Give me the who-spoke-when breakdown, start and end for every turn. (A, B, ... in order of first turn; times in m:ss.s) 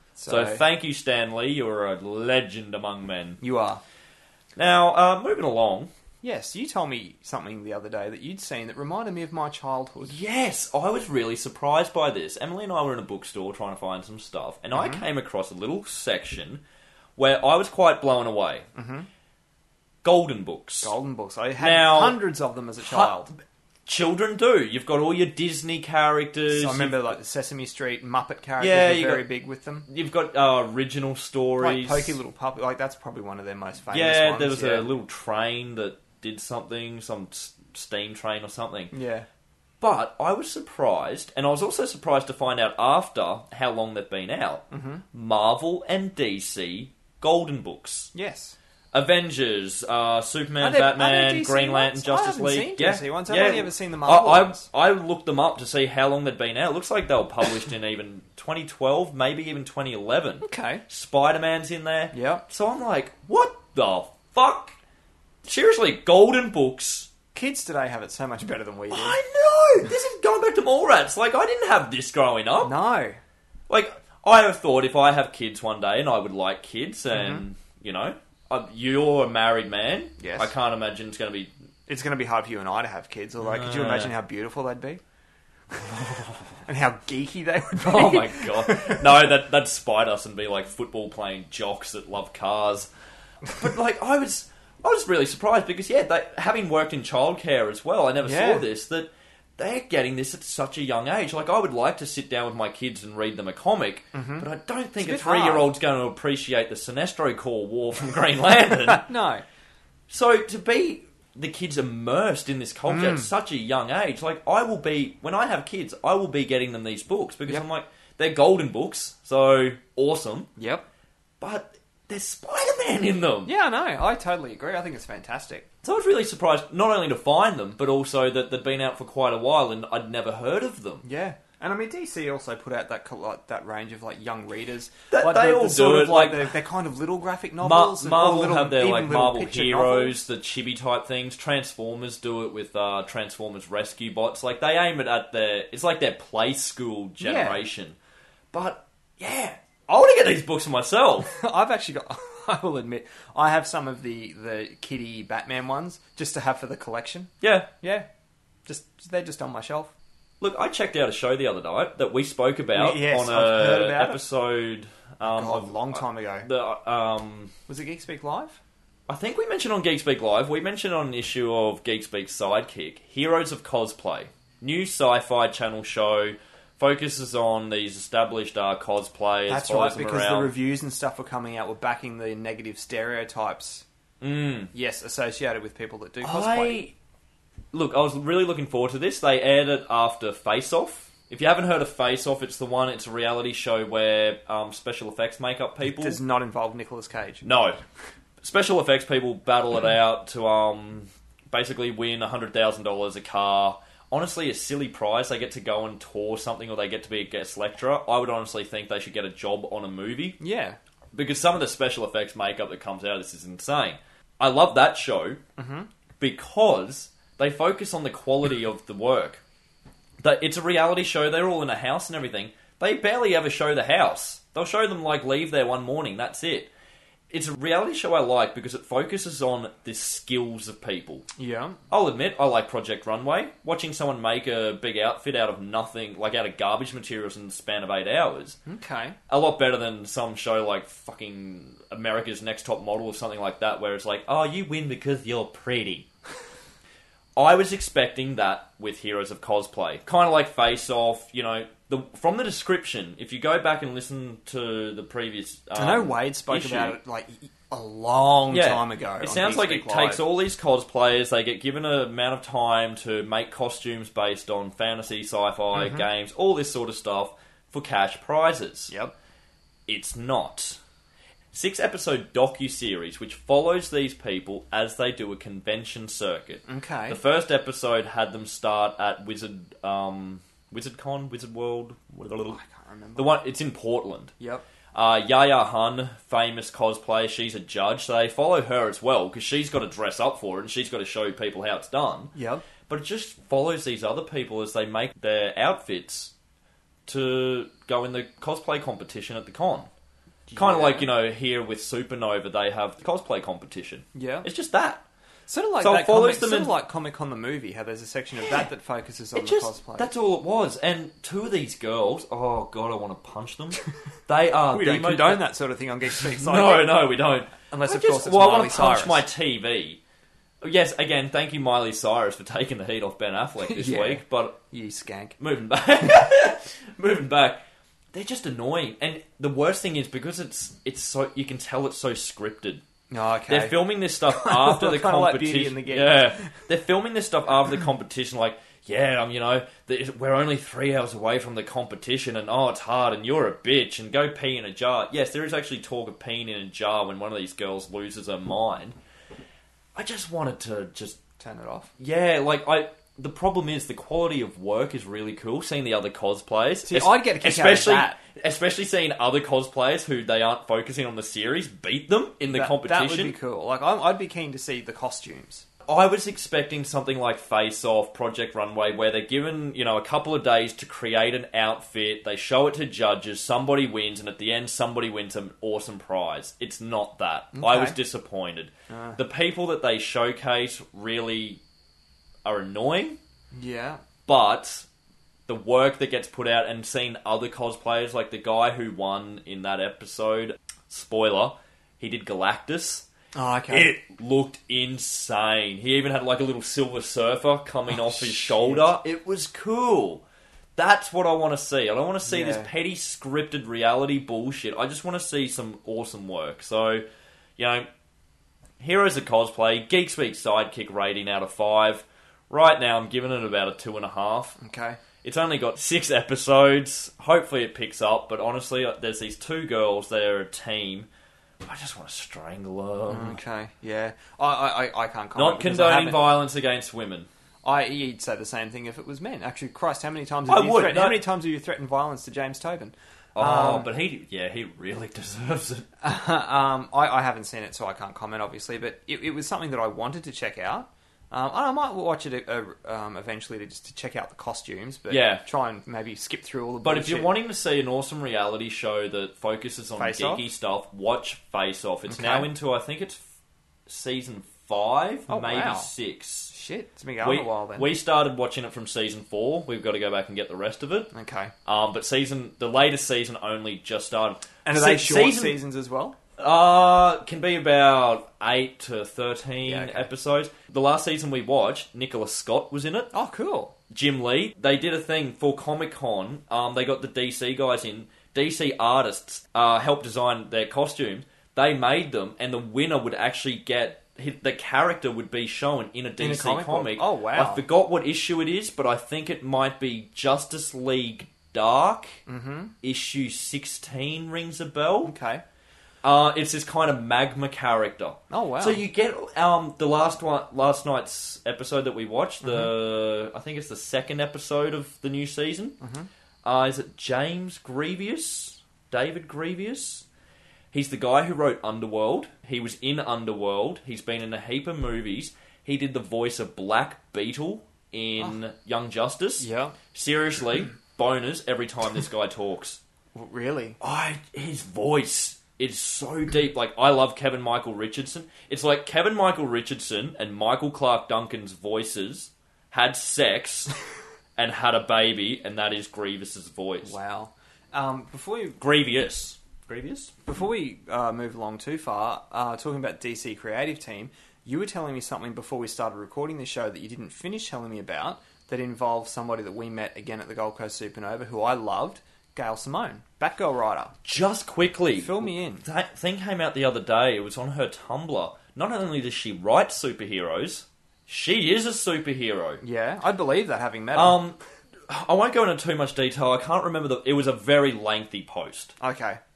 0:00.2-0:00.6 A
0:00.3-0:03.4 B
0:03.4-0:03.8 A
0:04.6-0:05.9 B
0:06.2-0:10.2 A
0:10.1-0:16.6 B
0:14.7-0:15.0 A
0:17.2-0:18.7 B
0:18.8-0:19.1 A
0:20.0-0:20.9 B
0:20.8-0:23.3 A
0:21.6-0:22.2 B
0:22.8-0:23.2 B
0:23.9-0:27.2 B
0:26.5-0:29.9 A
0:28.6-0:29.3 B
0:29.9-0:32.2 B
0:31.6-0:34.9 A
0:33.9-0:38.9 B
0:38.9-0:39.3 A
0:39.8-0:48.1 B
0:44.7-0:45.0 A
0:48.1-0:48.6 A
0:48.9-1:04.7 B
0:50.6-0:54.7 A
1:00.4-1:00.8 A
1:02.1-1:02.4 A
1:05.4-1:07.1 B
1:07.3-1:09.2 A
1:08.9-1:12.7 B
1:12.6-1:13.2 A
1:13.7-1:21.5 B
1:17.1-1:17.4 A
1:20.2-1:20.5 A
1:21.9-1:25.0 A
1:23.4-1:24.1 B
1:25.7-1:29.1 A
1:27.8-1:32.9 B
1:33.5-1:49.1 B
1:38.2-1:38.7 A
1:44.1-1:44.5 A
1:45.0-1:45.7 A
1:48.8-1:49.4 A
1:50.1-2:00.5 B
1:52.9-1:53.3 A
2:00.6-2:00.8 A
2:01.4-2:03.5 B
2:03.4-2:05.7 A
2:05.8-2:11.0 B
2:11.0-2:20.2 A
2:15.1-2:16.5 B
2:17.6-2:28.0 B
2:27.2-2:27.6 A
2:28.5-2:31.3 B
2:31.2-2:38.1 A
2:37.4-2:37.7 B
2:38.7-2:39.9 A
2:40.4-2:47.5 B
2:42.7-2:44.2 A
2:45.2-2:46.5 A
2:47.7-2:48.6 A
2:49.1-3:00.5 B
2:59.5-3:03.8 A
3:04.2-3:04.7 B
3:04.7-3:06.8 A
3:06.2-3:06.9 B
3:07.7-3:16.2 B
3:15.8-3:17.4 A
3:17.4-3:17.8 B
3:18.4-3:30.4 B
3:30.4-3:30.8 A
3:31.1-3:35.4 B
3:35.6-3:35.9 A
3:36.2-3:39.4 B
3:40.2-3:46.7 B
3:47.3-3:51.3 B
3:51.4-3:51.8 A
3:51.9-3:58.6 B
3:58.7-3:59.2 A
3:59.3-4:06.1 B
4:07.4-4:17.0 B
4:15.8-4:20.2 A
4:18.5-4:28.9 B
4:25.8-4:26.1 A
4:28.9-4:29.1 A
4:29.9-4:30.8 B
4:31.5-4:42.6 B
4:36.7-4:37.2 A
4:42.5-4:43.4 A
4:43.2-4:44.3 B
4:44.4-4:44.7 A
4:44.9-4:52.3 B
4:52.4-4:52.7 A
4:52.8-4:56.3 B
4:57.1-4:59.9 B
5:00.5-5:01.1 A
5:00.6-5:05.0 B
5:04.2-5:04.5 A
5:05.5-5:10.1 A
5:05.8-5:06.8 B
5:09.4-5:15.5 B
5:14.7-5:17.0 A
5:16.2-5:20.0 B
5:17.7-5:19.2 A
5:20.6-5:24.6 B
5:23.6-5:25.4 A
5:25.4-5:27.6 B
5:28.1-5:32.8 B
5:33.1-5:36.5 A
5:33.5-5:49.0 B
5:50.0-5:51.2 B
5:51.4-5:51.9 A
5:52.0-6:03.4 B
5:56.8-5:58.2 A
6:02.5-6:05.6 A
6:05.9-6:21.6 B
6:17.5-6:18.0 A
6:18.9-6:19.2 A
6:22.4-6:23.2 B
6:23.5-6:24.0 A
6:24.3-6:24.9 B
6:25.5-6:33.1 B
6:33.4-6:34.0 A
6:33.7-6:40.2 B
6:37.9-6:38.9 A
6:40.8-6:47.0 B
6:42.2-6:42.7 A
6:47.6-6:47.9 B
6:48.8-6:54.6 B
6:54.6-6:55.0 A
6:55.2-7:01.1 B
7:01.6-7:03.4 B
7:03.1-7:06.3 A
7:05.4-7:07.3 B
7:07.6-7:13.9 A
7:10.5-7:11.2 B
7:13.4-7:15.9 B
7:16.0-7:27.3 A
7:25.1-7:25.4 B
7:26.8-7:33.2 B
7:30.0-7:30.4 A
7:32.1-7:32.5 A
7:33.9-7:36.5 B
7:35.3-7:35.9 A
7:36.5-7:37.9 A
7:37.2-7:41.1 B
7:41.1-7:41.5 A
7:41.6-7:45.6 B
7:44.6-7:46.2 A
7:46.4-7:53.1 B
7:49.6-7:50.1 A
7:53.1-7:53.7 A
7:53.9-8:12.2 B
8:06.2-8:07.6 A
8:12.3-8:12.7 A
8:12.8-8:15.1 B
8:15.0-8:15.4 A
8:16.0-8:25.8 B
8:18.3-8:18.8 A
8:22.4-8:22.7 A
8:25.8-8:26.1 A
8:26.4-8:30.1 B
8:30.7-8:42.8 B
8:39.4-8:39.8 A
8:43.2-8:43.8 A
8:43.8-8:53.7 B
8:54.4-8:57.0 B
8:56.8-8:58.6 A
8:58.6-9:00.1 B
9:00.2-9:13.9 A
9:14.0-9:22.6 B
9:15.0-9:15.7 A
9:22.6-9:24.2 A
9:23.9-9:24.4 B
9:24.9-9:28.8 B
9:28.8-9:29.2 A